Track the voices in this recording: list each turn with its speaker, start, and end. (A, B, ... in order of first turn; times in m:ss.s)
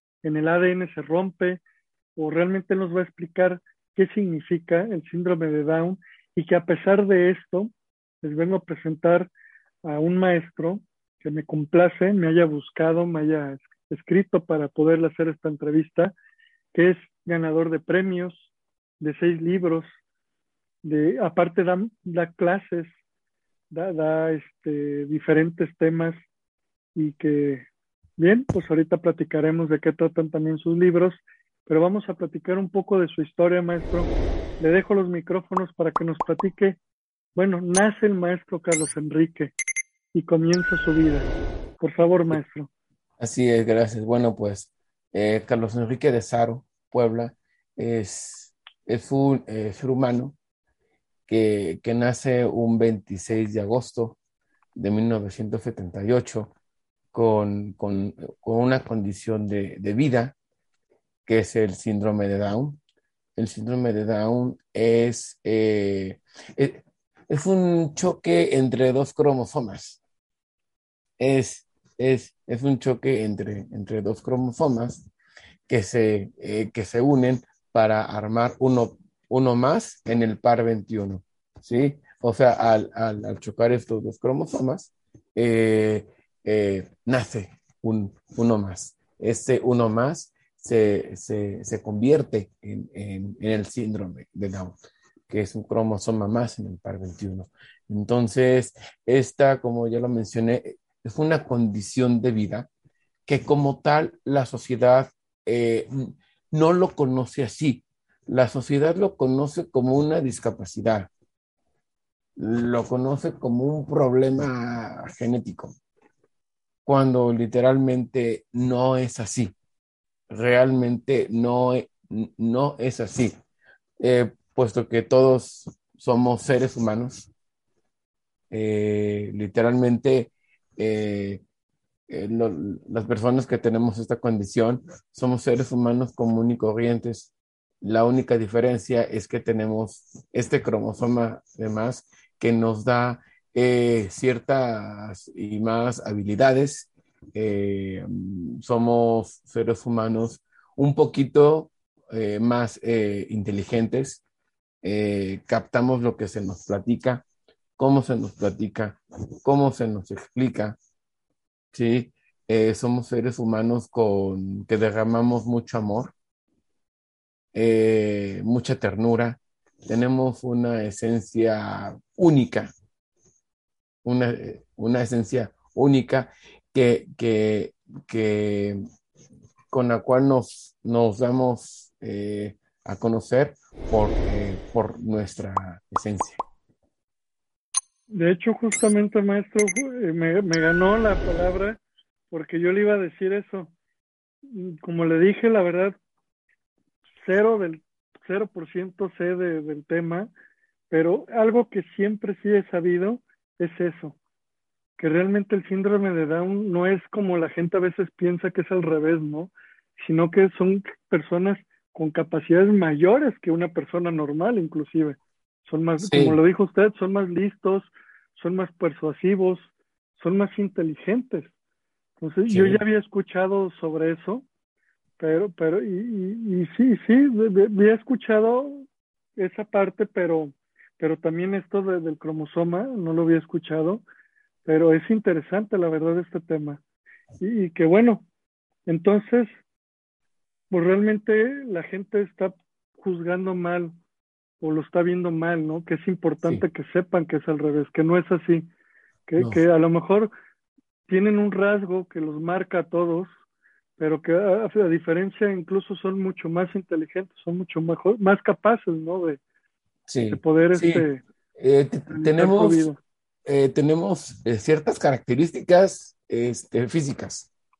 0:00.2-0:01.6 A
0:02.2-0:07.7 A
0:08.2-0:09.3 A
0:09.8-0:16.1 A
0:16.7-0:18.5 A
0:19.0-0:19.9 A
0:20.8-0:22.9 A
0:23.7-0:26.2 A
0:26.9-0:27.7 A
0:28.2-0:36.8 A
0:37.3-0:39.5 A
0:40.1-0:41.3 A
0:41.8-0:42.7 A
0:43.2-0:50.4 B
0:51.3-0:54.2 B
0:54.7-0:56.5 B
0:57.1-1:00.3 B
1:01.2-1:02.8 B
1:03.4-1:10.0 B
1:11.2-1:15.1 B
1:15.7-1:34.8 B
1:35.3-1:42.7 B
1:43.2-1:51.1 B
1:52.4-1:55.8 B
1:56.8-1:59.5 B
2:00.3-2:03.3 B
2:04.0-2:07.3 B
2:08.5-2:11.4 B
2:12.1-2:34.2 B
2:34.8-2:37.2 B
2:37.8-2:40.8 B
2:41.7-2:46.1 B
2:47.5-2:52.7 B
2:54.0-2:58.8 B
2:59.7-3:06.4 B
3:08.1-3:11.8 A
3:12.3-3:13.7 A
3:14.5-3:16.0 A
3:17.2-3:20.3 A
3:20.9-3:24.2 A
3:25.0-3:41.5 A
3:36.0-3:36.4 B
3:42.2-3:44.4 A
3:42.5-3:42.8 B
3:45.2-3:48.8 A
3:49.4-3:54.0 A
3:54.6-3:56.8 A
3:57.4-3:58.2 A
3:58.9-3:59.5 A
4:00.7-4:04.0 A
4:04.6-4:08.7 A
4:09.3-4:10.3 A
4:11.1-4:13.3 A
4:14.0-4:19.4 A
4:20.1-4:21.0 B
4:20.3-4:21.2 A
4:21.6-4:22.9 B
4:22.1-4:23.0 A
4:23.4-4:27.5 B